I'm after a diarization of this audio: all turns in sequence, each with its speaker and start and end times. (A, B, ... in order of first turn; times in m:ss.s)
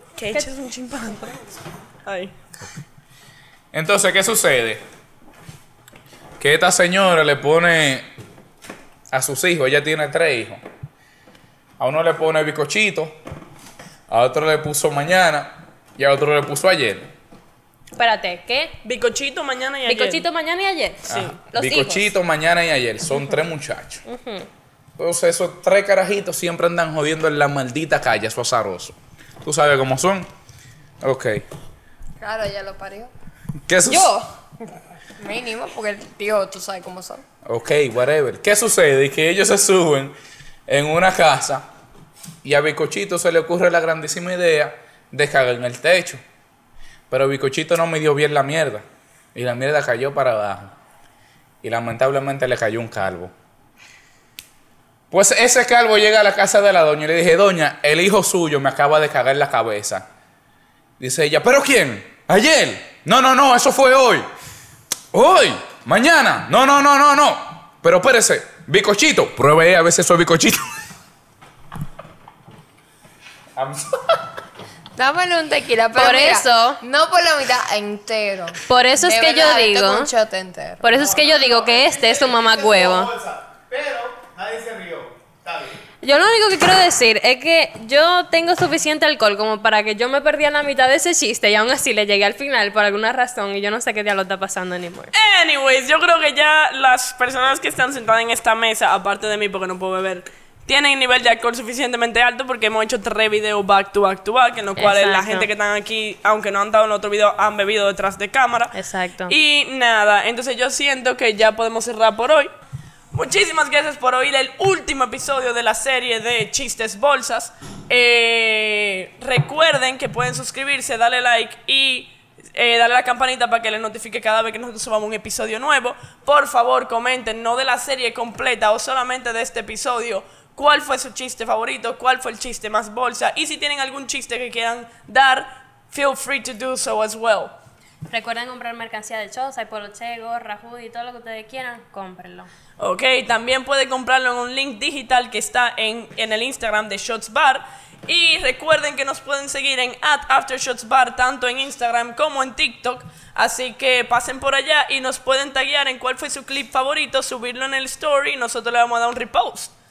0:00.2-0:01.4 A
0:02.0-0:02.3 A
0:03.7-0:04.8 B
0:06.4-0:08.1 B
0:09.1-0:10.6 B
0:11.8-0:13.1 B
0:14.1-0:17.1 B
0:18.0-0:18.8 C
0:18.8-0:20.2 A
0:19.8-0:22.1 C
0:21.1-0:21.4 A
0:21.1-0:24.0 B
0:24.0-0:24.5 C
0:25.0-0:30.3 B
0:31.0-0:31.4 B
0:32.2-0:33.1 D
0:33.7-0:34.2 B
0:35.2-0:37.2 D
0:37.4-0:40.1 B
0:40.7-0:41.6 B
0:42.4-0:46.2 B
0:47.1-0:48.8 B
0:49.3-0:50.7 B
0:51.6-0:53.3 B
0:55.1-1:00.0 B
1:01.0-1:04.3 B
1:05.1-1:10.7 B
1:13.6-1:14.0 B
1:15.0-1:21.0 D
1:16.0-1:16.8 C
1:18.6-1:20.1 C
1:20.8-1:23.1 C
1:20.9-1:25.8 E
1:26.0-1:35.1 C
1:35.1-1:48.7 A
1:44.8-1:45.5 C
1:48.7-1:49.3 C
1:49.3-1:52.5 A
1:53.1-2:17.5 A
2:18.1-2:22.5 C
2:22.8-2:39.7 A